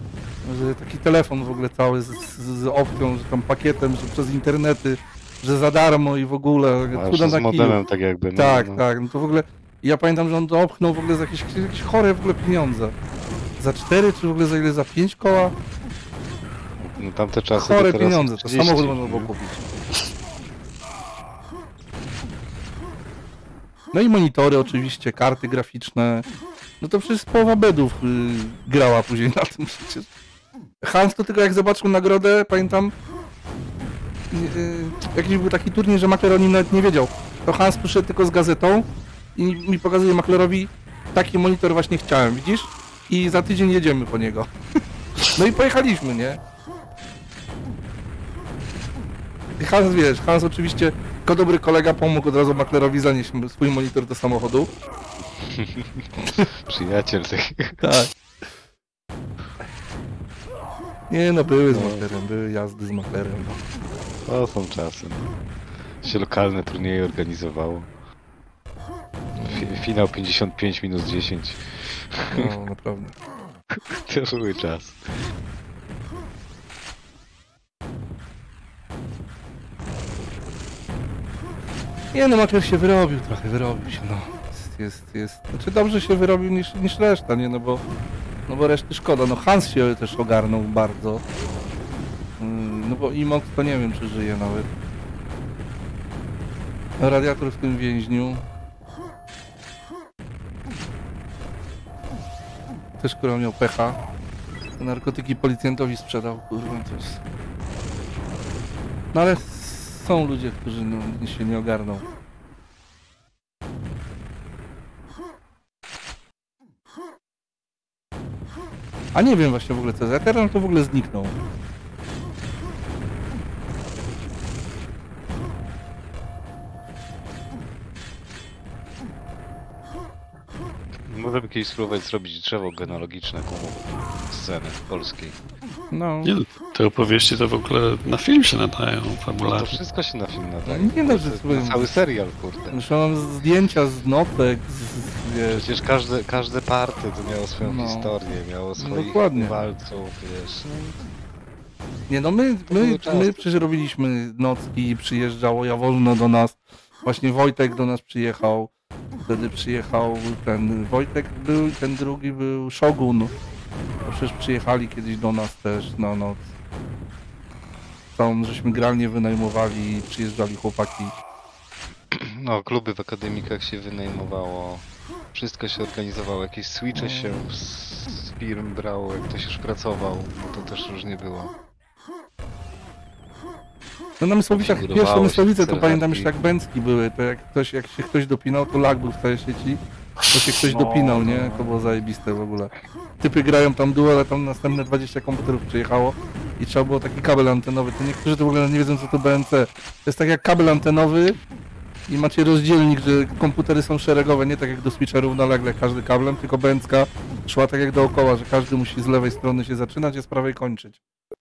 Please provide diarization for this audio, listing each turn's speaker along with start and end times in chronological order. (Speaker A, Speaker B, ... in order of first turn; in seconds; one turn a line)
Speaker A: 0.4-7.8
Speaker B: 6.9-8.8
Speaker A: 8.3-12.9
Speaker A: 13.6-15.6
Speaker B: 16.8-19.3
Speaker A: 17.6-19.7
Speaker A: 23.9-26.3
Speaker A: 26.8-30.1
Speaker A: 30.8-32.9
Speaker A: 34.3-44.5
Speaker A: 45.3-46.4
Speaker A: 49.6-54.7
Speaker B: 55.4-56.1
Speaker B: 56.6-57.8
Speaker A: 57.8-58.1
Speaker A: 61.1-63.6
Speaker B: 61.7-62.0
Speaker B: 64.3-65.2
Speaker B: 66.0-67.9
Speaker A: 69.3-69.8
Speaker B: 69.4-72.5
Speaker A: 72.3-73.1
Speaker B: 73.7-75.0
Speaker A: 82.1-87.8
Speaker A: 88.5-91.2
Speaker A: 92.4-94.7
Speaker A: 97.0-98.5
Speaker A: 103.0-104.0
Speaker A: 104.8-107.2
Speaker A: 109.1-112.1
Speaker A: 119.1-121.4
Speaker B: 131.1-135.4
Speaker A: 135.9-136.3
Speaker C: 136.2-139.8
Speaker B: 139.4-142.8
Speaker A: 140.7-141.9
Speaker A: 142.7-145.6
Speaker B: 145.5-151.0
Speaker A: 147.6-148.1
Speaker A: 148.8-149.6
Speaker A: 152.1-158.7
Speaker B: 152.7-153.7
Speaker A: 159.3-163.3
Speaker A: 164.1-166.5
Speaker A: 168.2-171.1
Speaker B: 172.1-181.5
Speaker A: 176.9-177.4
Speaker A: 184.2-201.4
Speaker B: 184.5-186.3
Speaker B: 190.6-191.9
Speaker A: 202.1-211.0